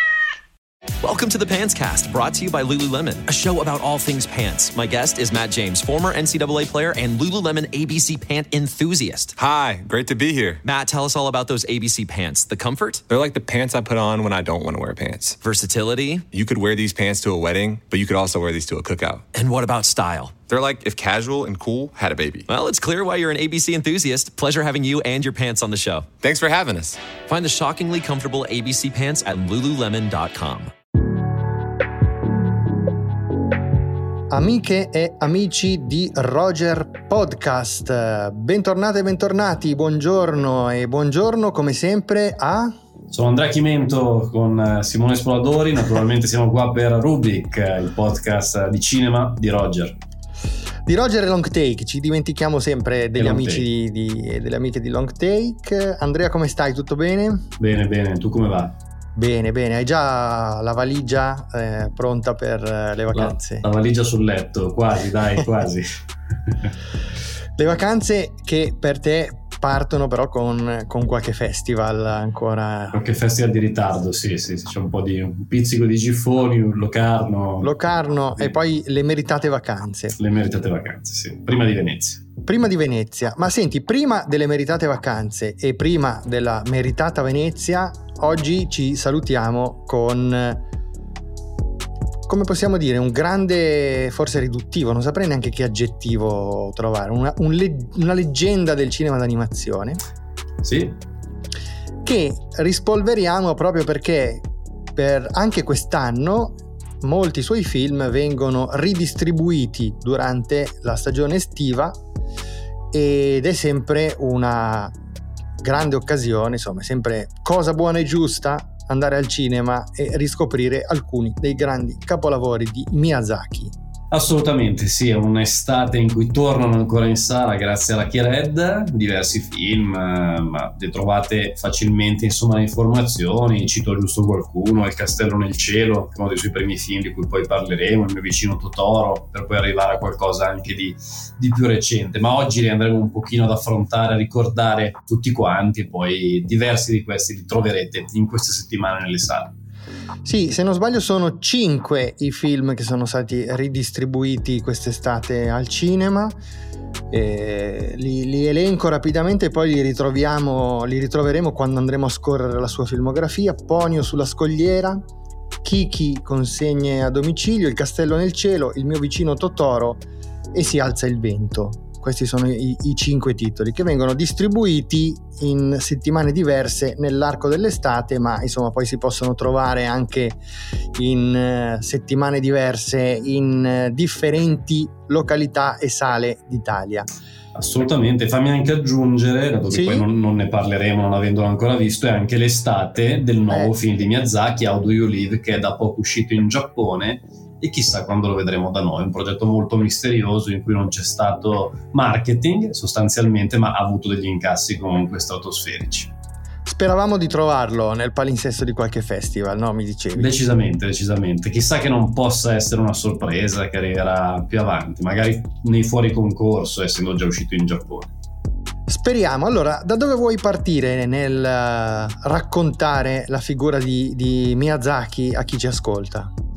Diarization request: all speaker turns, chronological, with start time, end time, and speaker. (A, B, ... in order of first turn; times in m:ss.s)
0:01.0-0:09.3 A
0:09.4-0:10.6 B
0:10.6-0:13.0 A
0:13.1-0:15.4 B
0:15.4-0:16.3 A
0:16.3-0:19.2 B
0:19.3-0:20.5 A
0:20.5-0:22.5 B
0:22.5-0:26.1 A
0:26.2-0:27.0 B
0:27.2-0:30.7 A
0:34.3-0:42.7 C
0:43.1-0:50.0 D
0:50.8-0:57.4 C
0:53.2-0:53.7 D
0:57.6-0:58.8 D
0:59.1-1:03.6 C
1:03.1-1:05.9 D
1:06.4-1:06.7 D
1:07.6-1:13.0 C
1:12.9-1:17.7 D
1:17.6-1:20.2 C
1:20.1-1:22.2 D
1:22.4-1:30.6 C
1:32.3-1:40.0 C
1:40.6-1:41.0 D
1:42.0-1:52.0 C
1:52.9-1:54.9 C
1:55.6-2:03.7 C
2:04.1-2:29.5 D
2:30.2-2:36.4 C
2:37.1-2:45.0 C
2:45.6-3:00.4 C
3:00.9-3:07.1 C
3:07.5-3:26.1 D
3:09.7-3:10.0 C
3:26.6-3:30.3 C
3:30.1-3:38.1 D
3:38.9-3:46.3 C